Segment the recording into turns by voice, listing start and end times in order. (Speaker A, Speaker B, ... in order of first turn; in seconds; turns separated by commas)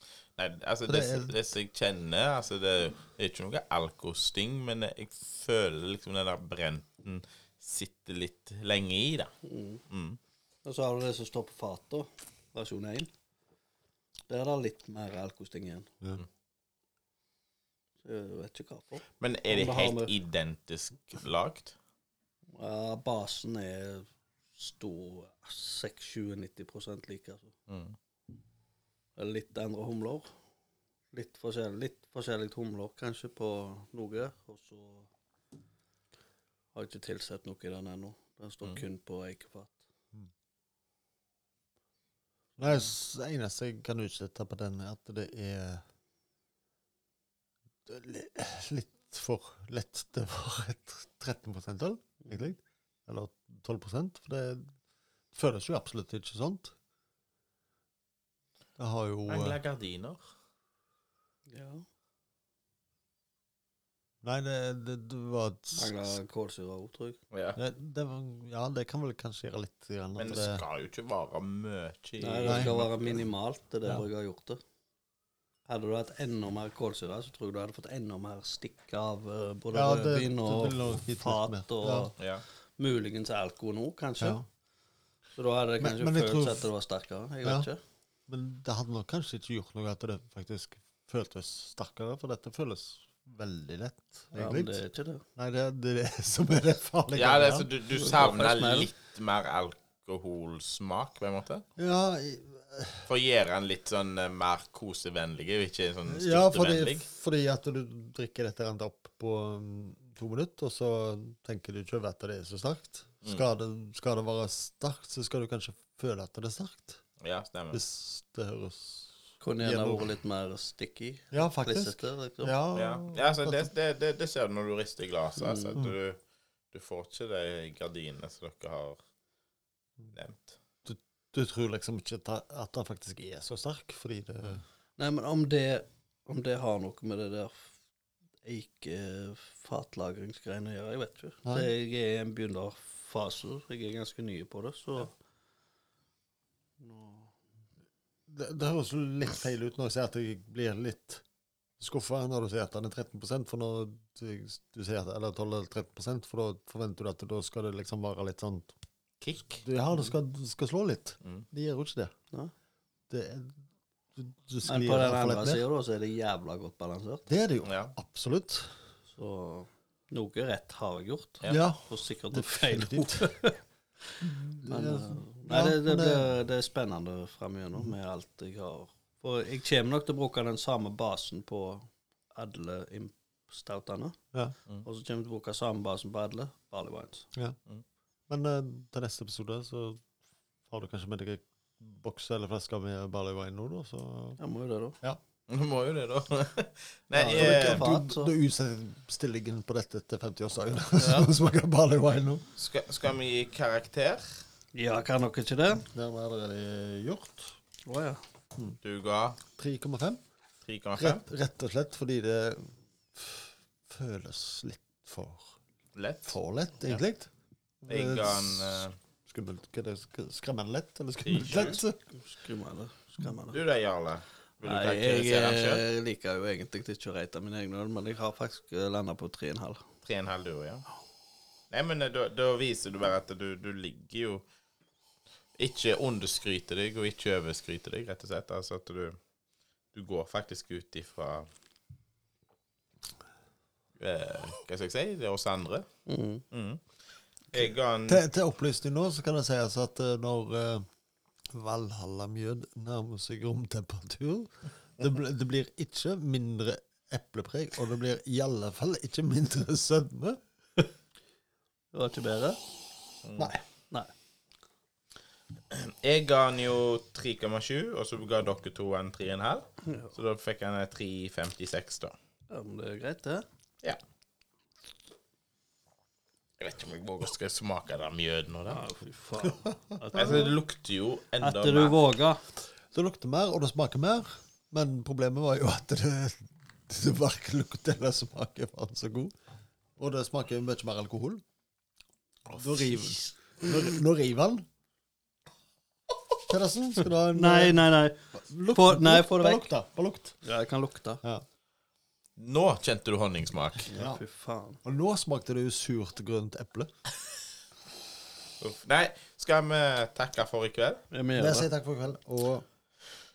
Speaker A: 0.4-9.3, Speaker B: 0.9-1.3, Speaker C: 9.4-9.8, Speaker A: 9.9-10.2, Speaker C: 10.6-13.1, Speaker C: 14.3-15.9, Speaker C: 18.0-20.1, Speaker A: 19.2-21.7, Speaker C: 22.5-27.5, Speaker A: 27.7-27.9, Speaker C: 29.1-30.3, Speaker C: 31.1-35.1, Speaker C: 36.7-39.8, Speaker B: 42.6-45.8, Speaker B: 47.9-54.7, Speaker B: 55.3-56.7, Speaker B: 58.8-59.6, Speaker A: 59.2-60.3, Speaker C: 61.5-61.8, Speaker B: 64.2-66.2, Speaker C: 65.7-67.2, Speaker A: 67.3-67.6, Speaker B: 67.6-70.6, Speaker A: 70.2-73.2, Speaker C: 72.2-74.6, Speaker B: 72.5-72.7, Speaker C: 75.7-82.2, Speaker B: 79.7-82.1, Speaker A: 82.2-82.4, Speaker C: 82.8-84.4, Speaker B: 84.2-84.4, Speaker C: 85.4-87.8, Speaker B: 85.8-86.7, Speaker B: 87.4-87.7, Speaker B: 88.3-94.8, Speaker C: 94.3-95.2, Speaker B: 95.3-97.7, Speaker A: 97.1-101.6, Speaker C: 97.9-98.9, Speaker B: 101.8-103.1, Speaker A: 103.1-107.0, Speaker B: 106.1-117.0, Speaker A: 117.2-117.8, Speaker B: 117.7-120.0, Speaker C: 119.4-122.5, Speaker B: 121.3-123.7, Speaker A: 122.7-126.2, Speaker C: 125.4-125.8, Speaker A: 126.7-129.0, Speaker A: 130.1-130.6, Speaker B: 130.8-134.6, Speaker C: 135.0-137.7, Speaker C: 138.4-145.1, Speaker C: 146.8-147.3, Speaker B: 148.3-151.2, Speaker B: 151.8-158.7, Speaker A: 159.2-159.6, Speaker B: 159.6-162.1, Speaker B: 163.1-163.6, Speaker B: 164.1-165.6, Speaker C: 164.7-167.2, Speaker B: 167.3-168.8, Speaker A: 167.6-167.9, Speaker C: 169.1-173.6, Speaker B: 171.5-173.4, Speaker C: 174.1-184.2, Speaker B: 174.2-176.3, Speaker C: 184.8-187.3, Speaker B: 188.3-190.0, Speaker B: 190.7-194.4, Speaker C: 194.4-195.0, Speaker A: 195.5-197.9, Speaker B: 197.1-202.4, Speaker C: 197.3-198.3, Speaker C: 200.9-201.3, Speaker A: 202.6-204.4, Speaker C: 204.7-205.8, Speaker B: 205.9-207.6, Speaker C: 207.8-208.2, Speaker A: 208.8-209.4, Speaker B: 209.6-210.2, Speaker A: 210.7-211.2, Speaker B: 210.9-215.6, Speaker A: 215.9-217.0, Speaker B: 216.2-217.3, Speaker B: 217.8-222.0, Speaker A: 217.9-218.9, Speaker A: 221.2-221.8, Speaker C: 222.1-223.6, Speaker A: 223.5-225.8, Speaker C: 224.6-229.8, Speaker A: 230.0-230.8, Speaker A: 231.7-234.4, Speaker A: 235.6-239.2, Speaker A: 239.9-241.5, Speaker A: 244.0-245.8, Speaker C: 246.1-246.4, Speaker A: 246.5-246.8, Speaker A: 247.5-248.2, Speaker B: 248.1-250.8, Speaker B: 251.5-260.4, Speaker C: 261.9-262.6, Speaker A: 263.2-263.5, Speaker A: 265.7-272.1, Speaker C: 272.5-273.4, Speaker A: 276.6-278.8, Speaker C: 278.7-280.6, Speaker B: 279.4-280.4, Speaker A: 280.1-282.0, Speaker C: 281.4-282.4, Speaker B: 282.9-289.3, Speaker B: 290.0-291.4, Speaker A: 292.5-293.2, Speaker B: 292.5-294.7, Speaker B: 296.4-300.4, Speaker C: 297.3-299.7, Speaker C: 300.4-301.2, Speaker A: 302.4-303.9, Speaker C: 303.9-304.8, Speaker B: 303.9-304.2, Speaker B: 304.8-306.9, Speaker A: 308.6-311.0, Speaker C: 311.1-311.7, Speaker B: 311.3-312.6